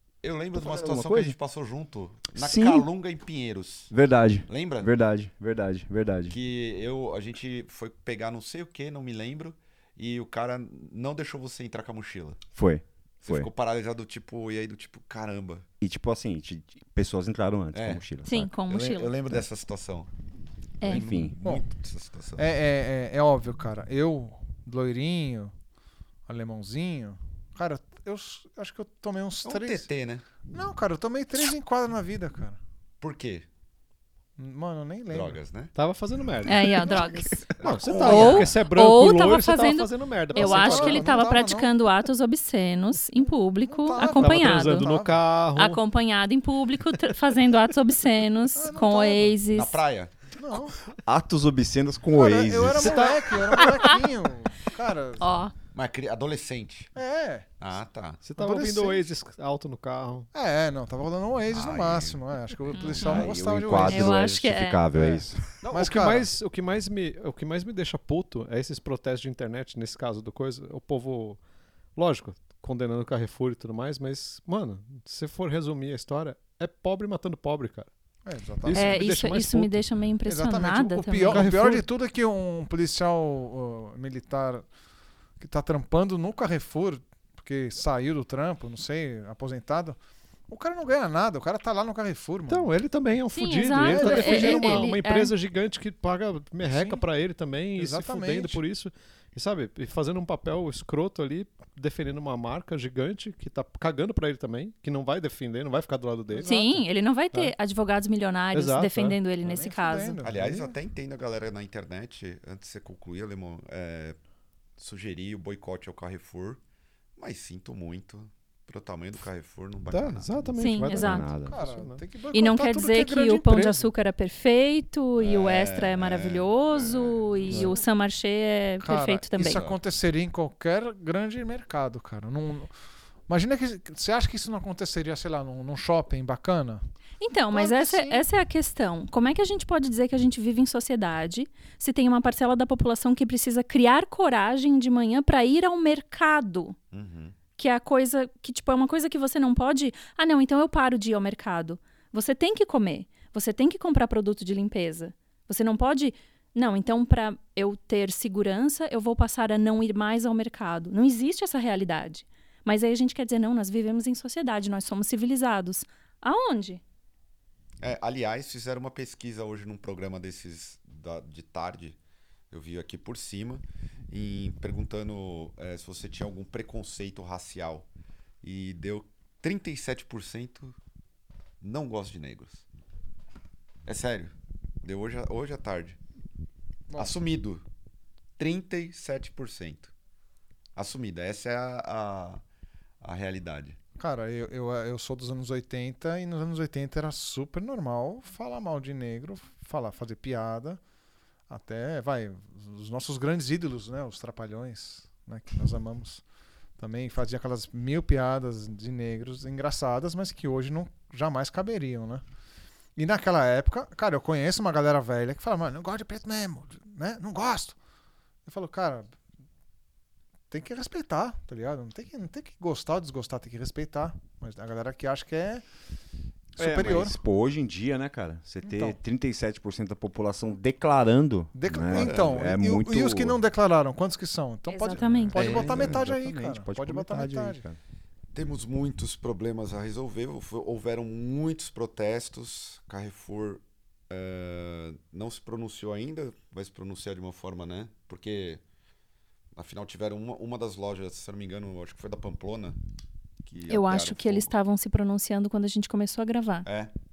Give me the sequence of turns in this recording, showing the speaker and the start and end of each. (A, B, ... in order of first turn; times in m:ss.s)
0:00.2-0:03.9 A
0:00.5-0:01.4 B
0:02.4-0:02.9 B
0:03.9-0:06.4 B
0:04.5-0:04.9 A
0:06.3-0:12.4 A
0:12.5-0:13.5 B
0:13.2-0:15.6 A
0:15.8-0:18.5 B
0:17.7-0:18.0 A
0:18.2-0:19.2 C
0:18.7-0:20.1 A
0:20.8-0:21.1 C
0:20.8-0:22.5 A
0:20.8-0:21.4 B
0:22.4-0:25.5 D
0:26.3-0:29.9 D
0:29.4-0:30.2 A
0:30.5-0:32.6 D
0:33.0-0:33.5 A
0:34.4-0:35.4 D
0:35.1-0:35.7 A
0:35.8-0:36.9 E
0:36.5-0:37.4 C
0:36.8-0:37.3 D
0:37.6-0:38.5 A
0:37.6-0:41.2 E
0:38.0-0:44.9 C
0:38.0-0:38.3 D
0:40.4-0:41.7 D
0:43.6-0:45.2 D
0:44.2-0:45.8 E
0:45.6-0:49.8 C
0:48.6-0:49.4 D
0:49.5-0:50.1 A
0:50.4-0:50.8 D
0:50.9-0:53.6 B
0:52.1-0:55.4 D
0:52.8-0:53.4 E
0:55.2-0:55.5 C
0:55.7-0:56.9 A
0:57.0-0:57.5 D
0:57.6-0:58.2 A
0:58.2-1:00.3 E
0:58.4-0:59.1 D
1:00.3-1:04.3 D
1:01.5-1:03.3 A
1:02.7-1:03.3 C
1:03.0-1:05.4 B
1:03.8-1:04.9 C
1:04.9-1:06.3 D
1:05.6-1:11.4 E
1:12.0-1:17.9 E
1:18.2-1:18.9 D
1:18.7-1:19.8 E
1:18.8-1:21.5 C
1:20.3-1:24.7 D
1:21.3-1:21.9 E
1:25.4-1:30.0 D
1:30.5-1:32.7 D
1:32.5-1:47.5 E
1:33.3-1:35.3 C
1:33.8-1:34.9 D
1:36.6-1:37.0 D
1:37.8-1:38.6 D
1:46.3-1:46.8 D
1:46.4-1:50.2 C
1:48.5-1:49.2 E
1:49.4-1:50.8 D
1:50.2-1:54.2 A
1:54.8-1:56.6 A
1:57.2-2:00.5 A
1:59.9-2:02.0 E
2:00.6-2:01.3 C
2:00.9-2:01.6 B
2:01.5-2:03.8 D
2:02.3-2:09.6 C
2:05.2-2:06.9 A
2:08.8-2:12.7 D
2:09.4-2:09.8 A
2:13.3-2:16.8 D
2:17.2-2:26.8 C
2:17.5-2:18.3 D
2:26.9-2:27.4 A
2:27.6-2:46.8 C
2:47.8-2:52.0 A
2:52.5-2:57.9 A
2:58.4-3:00.8 A
3:01.6-3:02.7 A
3:03.9-3:06.0 A
3:07.0-3:07.6 A
3:08.4-3:09.9 A
3:10.8-3:12.4 A
3:13.0-3:13.8 A
3:14.0-3:20.8 D
3:21.5-3:26.2 D
3:26.8-3:32.2 D
3:33.0-3:37.8 D
3:38.5-3:39.2 D
3:40.5-3:45.6 D
3:46.6-3:47.2 D
3:46.6-3:53.4 B
3:48.6-3:49.0 D
3:51.6-3:57.6 D
3:51.9-3:52.5 A
3:54.7-3:55.9 C
3:55.0-3:57.8 B
3:58.3-4:08.6 A
4:09.6-4:12.8 A
4:13.4-4:14.5 A
4:13.7-4:16.7 C
4:16.7-4:16.9 A